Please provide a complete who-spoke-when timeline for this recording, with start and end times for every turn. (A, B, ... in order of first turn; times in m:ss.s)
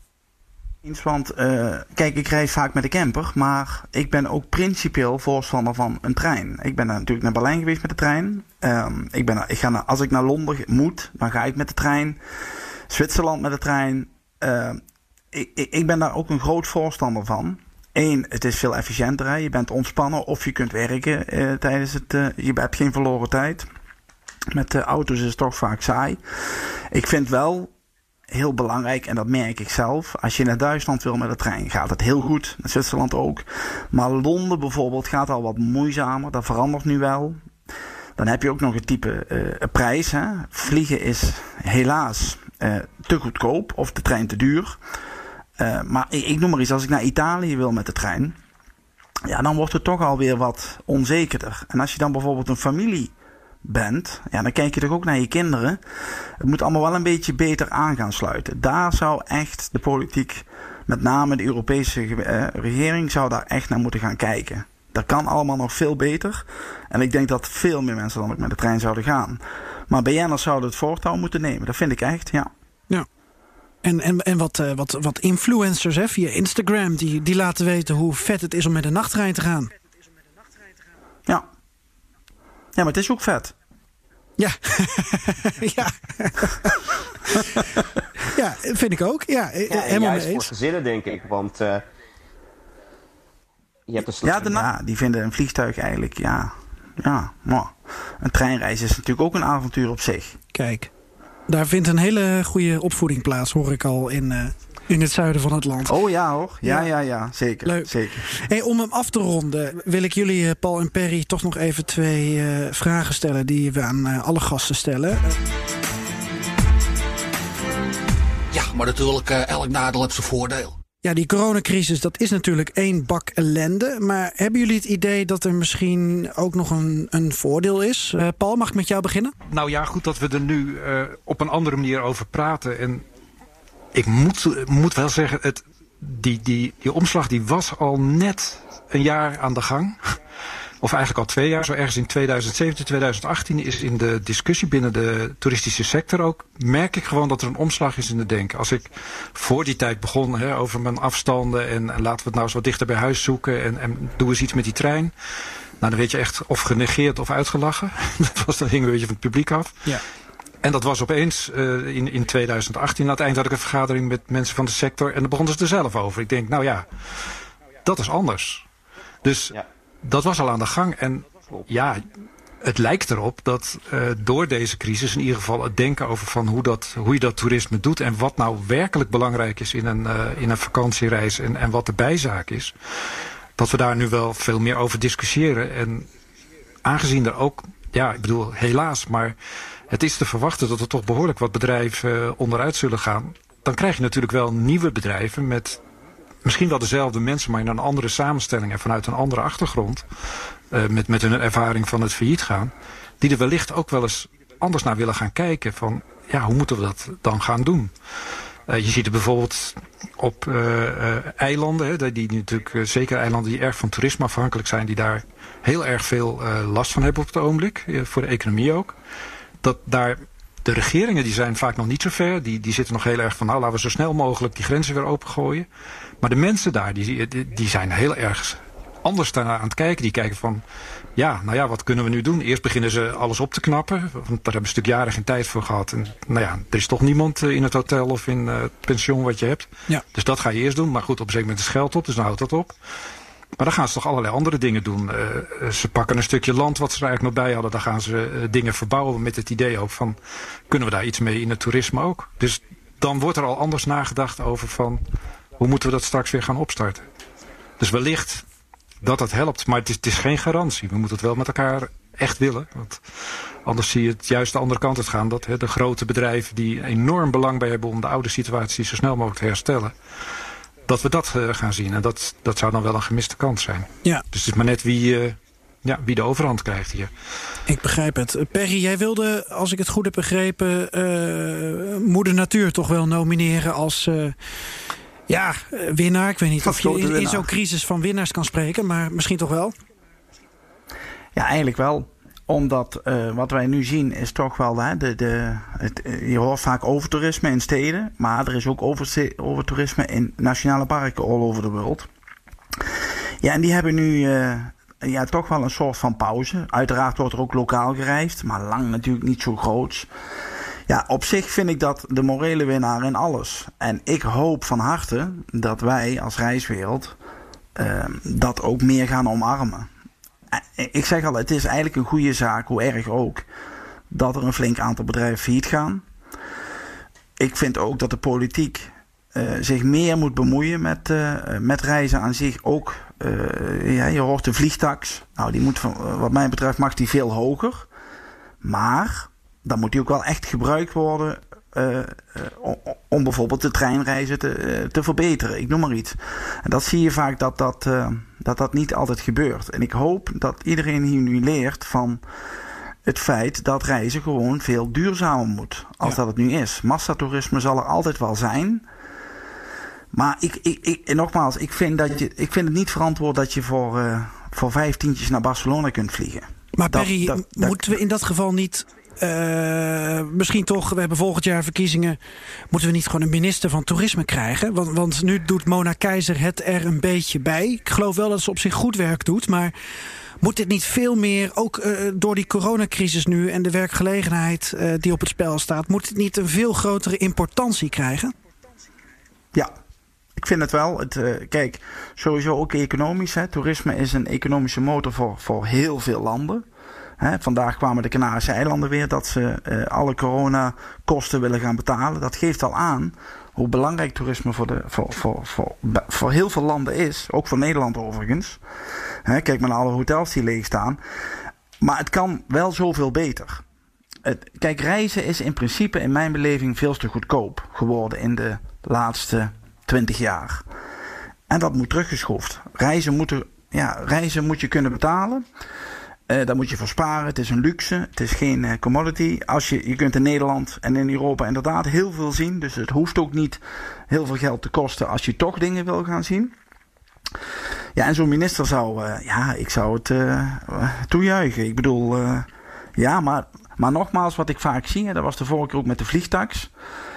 0:00.8-0:12.2 A
0:12.9-0:14.8 A
0:15.3-0:23.7 A
0:24.5-0:27.7 A
0:28.3-0:37.4 A
0:38.2-0:44.8 A
0:45.6-0:48.4 A
0:49.2-0:53.1 A
0:53.6-0:55.8 A
0:56.4-1:12.5 A
1:13.8-1:19.7 B
1:22.8-1:23.5 A
1:24.4-1:27.6 B
1:28.3-1:30.5 B
1:29.7-1:31.8 C
1:33.9-1:34.7 C
1:34.2-1:40.4 A
1:40.5-1:40.9 B
1:41.5-1:46.0 B
1:45.9-1:48.3 A
1:47.6-1:55.2 B
1:58.5-2:00.8 D
2:01.0-2:09.4 B
2:09.5-2:13.0 E
2:13.9-2:20.2 E
2:20.8-2:35.1 E
2:35.8-2:39.8 E
2:40.6-2:48.7 E
2:49.2-2:52.0 E
2:52.6-3:02.8 E
3:03.6-3:06.1 E
3:06.8-3:09.4 E
3:09.9-3:15.8 E
3:16.4-3:20.1 E
3:20.7-3:27.9 E
3:28.7-3:39.0 E
3:39.6-3:45.7 E
3:46.2-3:50.6 E
3:51.2-4:02.8 E
4:03.6-4:10.2 E
4:10.7-4:15.0 E
4:15.6-4:17.0 E
4:17.8-4:18.4 E
4:19.0-4:23.0 E
4:23.6-4:29.9 E
4:30.9-4:37.1 E
4:37.7-4:44.4 B
4:45.3-4:49.8 B
4:46.6-4:47.5 A
4:51.4-5:02.1 A
5:03.4-5:10.1 A
5:10.9-5:17.2 A
5:17.8-5:19.9 A
5:20.5-5:23.4 A
5:24.1-5:26.0 A
5:27.4-5:37.9 A
5:38.6-5:52.2 A
5:53.0-5:58.8 A
6:00.1-6:08.0 A
6:06.8-6:12.2 B
6:12.7-6:19.7 B
6:20.4-6:28.3 B
6:30.4-6:36.6 A
6:37.2-6:48.6 A
6:49.2-6:51.0 A
6:51.8-6:53.6 A
6:54.2-7:00.6 A
7:01.5-7:05.4 A
7:06.3-7:16.6 A
7:18.0-7:26.7 A